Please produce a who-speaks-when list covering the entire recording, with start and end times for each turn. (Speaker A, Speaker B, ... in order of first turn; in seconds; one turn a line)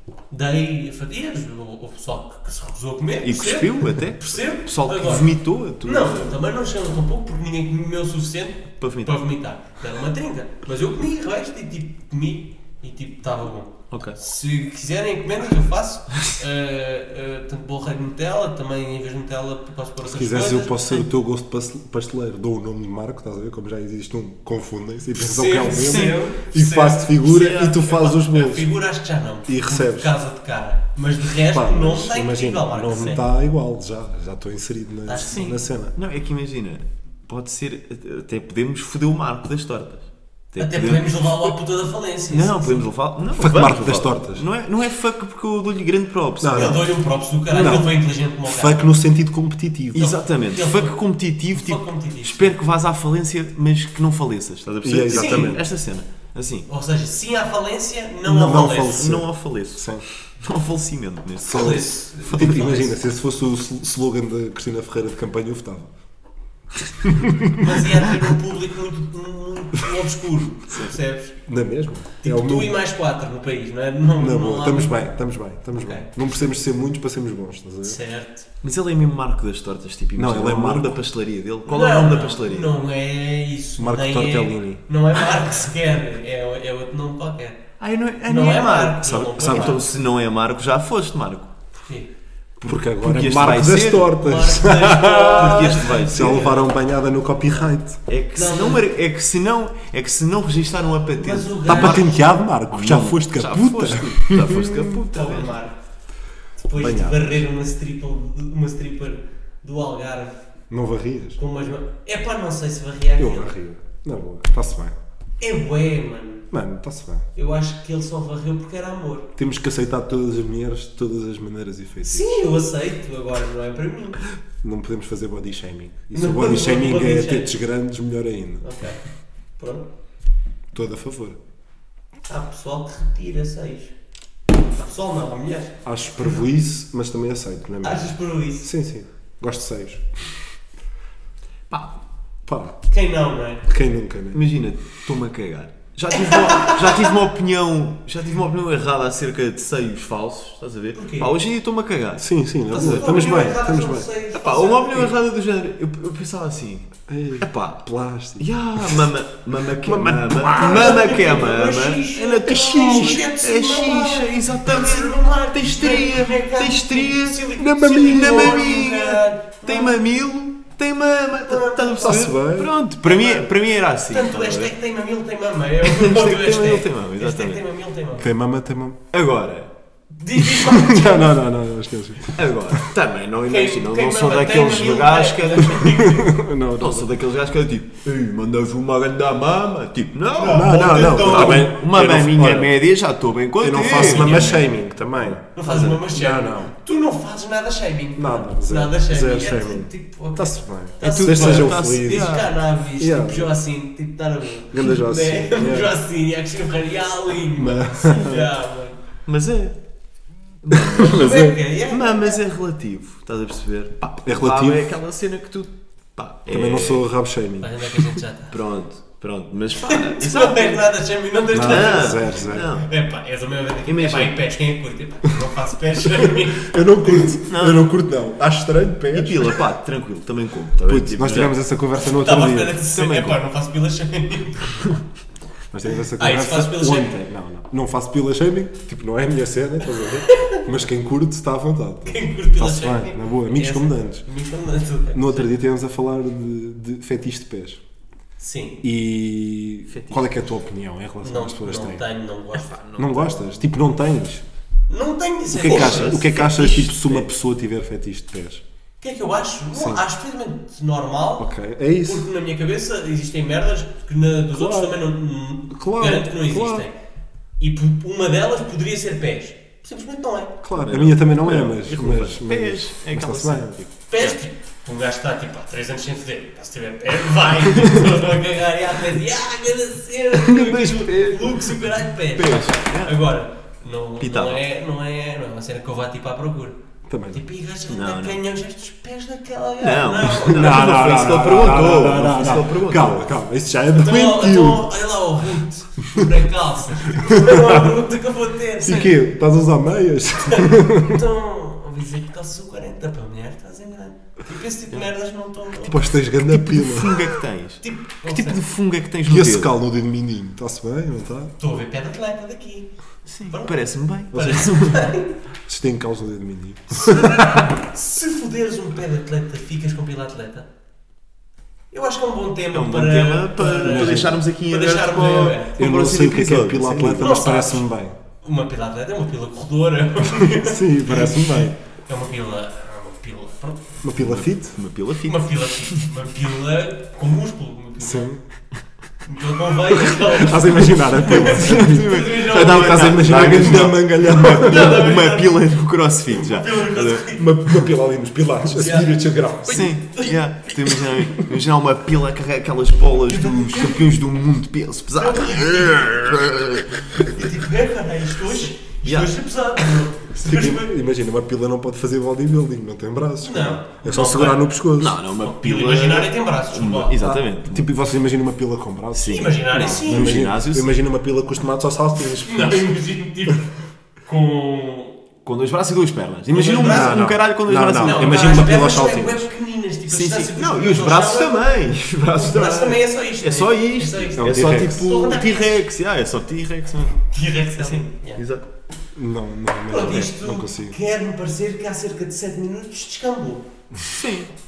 Speaker A: 0.3-21.1
Speaker B: 3.2-6.4
Speaker B: 8.8-9.2
Speaker B: 13.9-14.2
Speaker C: 20.1-28.7
Speaker A: 25.2-33.2
Speaker B: 25.7-26.2
Speaker C: 29.5-30.1
Speaker C: 31.5-35.9
Speaker A: 35.0-35.6
Speaker B: 35.1-41.5
Speaker A: 40.6-42.9
Speaker B: 42.3-46.8
Speaker C: 43.4-44.4
Speaker C: 46.4-46.9
Speaker A: 46.5-48.9
Speaker C: 47.5-50.1
Speaker B: 49.9-56.7
Speaker A: 50.0-51.0
Speaker A: 51.5-52.5
Speaker C: 54.8-55.6
Speaker A: 55.1-55.6
Speaker A: 56.7-59.0
Speaker C: 58.2-60.0
Speaker B: 58.9-62.7
Speaker A: 61.5-62.9
Speaker C: 61.5-65.9
Speaker C: 67.0-67.5
Speaker A: 67.5-71.3
Speaker C: 71.5-72.8
Speaker A: 72.2-75.0
Speaker C: 74.2-78.0
Speaker A: 75.7-76.1
Speaker A: 77.8-78.5
Speaker B: 78.6-82.8
Speaker C: 80.2-81.0
Speaker A: 81.7-87.6
Speaker C: 83.8-84.8
Speaker B: 87.8-91.5
Speaker A: 88.2-89.8
Speaker C: 89.0-89.8
Speaker A: 91.8-92.1
Speaker C: 92.6-98.0
Speaker B: 93.0-96.7
Speaker A: 94.1-96.6
Speaker B: 98.1-105.6
Speaker A: 98.3-98.9
Speaker A: 101.2-102.2
Speaker C: 101.7-105.0
Speaker A: 105.1-105.7
Speaker A: 106.6-110.4
Speaker C: 106.8-107.4
Speaker C: 110.7-111.4
Speaker A: 111.3-113.5
Speaker C: 113.2-115.0
Speaker A: 115.4-116.5
Speaker C: 116.5-117.3
Speaker A: 117.3-119.3
Speaker C: 119.3-122.5
Speaker A: 122.0-124.2
Speaker C: 124.6-128.6
Speaker A: 126.1-127.5
Speaker A: 128.6-129.0
Speaker A: 129.6-129.9
Speaker C: 130.7-131.4
Speaker A: 132.3-133.9
Speaker A: 134.8-136.3
Speaker C: 135.8-140.4
Speaker A: 137.8-138.7
Speaker C: 142.4-142.8
Speaker A: 142.9-143.6
Speaker C: 143.7-144.4
Speaker B: 144.3-153.2
Speaker A: 146.1-147.1
Speaker A: 150.9-151.3
Speaker C: 152.2-154.1
Speaker A: 152.7-155.1
Speaker B: 154.3-174.7
Speaker C: 157.1-159.1
Speaker C: 159.8-161.2
Speaker A: 160.5-170.0
Speaker C: 162.4-163.2
Speaker C: 167.6-168.7
Speaker A: 171.4-172.3
Speaker C: 172.0-172.7
Speaker A: 173.0-173.5
Speaker A: 174.1-178.3
Speaker B: 175.8-177.6
Speaker C: 178.2-179.0
Speaker B: 179.1-179.7
Speaker A: 180.1-181.4
Speaker C: 180.7-182.8
Speaker B: 182.3-186.0
Speaker A: 183.5-186.4
Speaker C: 186.0-187.1
Speaker B: 186.8-194.6
Speaker A: 190.3-191.7
Speaker C: 190.5-192.7
Speaker C: 193.6-196.7
Speaker A: 193.9-194.6
Speaker A: 195.6-209.0
Speaker B: 195.7-196.0
Speaker C: 198.2-202.3
Speaker B: 201.0-202.5
Speaker C: 203.0-203.5
Speaker C: 204.7-205.9
Speaker C: 207.5-208.3
Speaker B: 208.0-208.4
Speaker B: 209.2-209.8
Speaker B: 210.6-217.1
Speaker C: 210.7-211.5
Speaker A: 211.0-212.4
Speaker C: 214.2-214.9
Speaker C: 216.5-217.9
Speaker A: 217.6-218.6
Speaker B: 218.5-220.8
Speaker A: 219.8-227.3
Speaker C: 221.5-222.7
Speaker B: 221.5-222.9
Speaker B: 223.9-224.3
Speaker C: 226.0-229.6
Speaker B: 227.5-227.9
Speaker B: 229.1-231.6
Speaker C: 230.9-232.8
Speaker A: 232.0-235.0
Speaker B: 232.9-233.4
Speaker C: 235.7-244.2
Speaker A: 236.2-237.2
Speaker A: 240.0-240.6
Speaker A: 242.1-245.5
Speaker C: 245.1-247.8
Speaker A: 248.4-248.8
Speaker C: 248.8-252.0
Speaker B: 249.9-250.3
Speaker A: 251.2-252.7
Speaker B: 252.5-253.7
Speaker C: 253.0-254.4
Speaker A: 254.9-257.2
Speaker C: 255.5-258.6
Speaker B: 255.6-257.1
Speaker A: 259.0-266.9
Speaker C: 259.7-260.0
Speaker C: 261.4-262.3
Speaker C: 264.5-265.0
Speaker C: 265.7-266.9
Speaker A: 267.6-270.6
Speaker C: 270.6-273.8
Speaker B: 270.7-274.4
Speaker A: 274.1-286.8
Speaker B: 277.8-278.1
Speaker B: 280.4-283.2
Speaker B: 284.2-284.6
Speaker C: 287.1-287.4
Speaker A: 287.3-291.3
Speaker B: 287.9-288.4
Speaker B: 289.8-293.3
Speaker C: 290.5-294.9
Speaker A: 293.9-299.1
Speaker C: 297.1-298.0
Speaker C: 298.8-301.2
Speaker A: 300.4-306.1
Speaker C: 305.8-307.2
Speaker B: 306.5-309.7
Speaker A: 307.8-308.6
Speaker C: 309.2-311.5
Speaker A: 311.6-312.9
Speaker B: 313.2-315.1
Speaker A: 313.5-313.8
Speaker A: 314.3-315.3
Speaker C: 314.3-314.7
Speaker C: 315.6-317.6
Speaker A: 316.9-320.7
Speaker A: 321.9-325.8
Speaker B: 322.7-327.6
Speaker C: 323.8-324.4
Speaker C: 325.8-328.2
Speaker A: 327.2-327.8
Speaker A: 328.4-334.0
Speaker C: 330.4-331.8
Speaker C: 334.0-334.8
Speaker B: 334.1-336.0
Speaker A: 335.2-338.3
Speaker C: 338.0-338.4
Speaker A: 339.2-343.6
Speaker C: 339.9-345.0
Speaker B: 341.3-347.2
Speaker A: 344.4-347.6
Speaker C: 347.4-349.8
Speaker A: 348.7-351.1
Speaker B: 349.7-357.3
Speaker A: 353.3-354.1
Speaker A: 355.2-356.3
Speaker A: 357.3-360.9
Speaker B: 359.0-360.0
Speaker C: 360.3-365.2
Speaker A: 363.4-364.7
Speaker B: 365.0-367.9
Speaker A: 365.4-367.2
Speaker C: 367.2-372.9
Speaker B: 369.1-370.9
Speaker A: 369.3-370.4
Speaker A: 372.4-375.2
Speaker B: 375.4-378.7
Speaker C: 376.5-379.5
Speaker A: 376.5-377.3
Speaker A: 378.0-381.7
Speaker B: 380.1-387.2
Speaker A: 382.3-385.8
Speaker C: 384.4-385.0
Speaker A: 387.3-388.4
Speaker B: 387.7-388.6
Speaker C: 389.1-390.9
Speaker A: 389.9-393.7
Speaker B: 394.1-394.5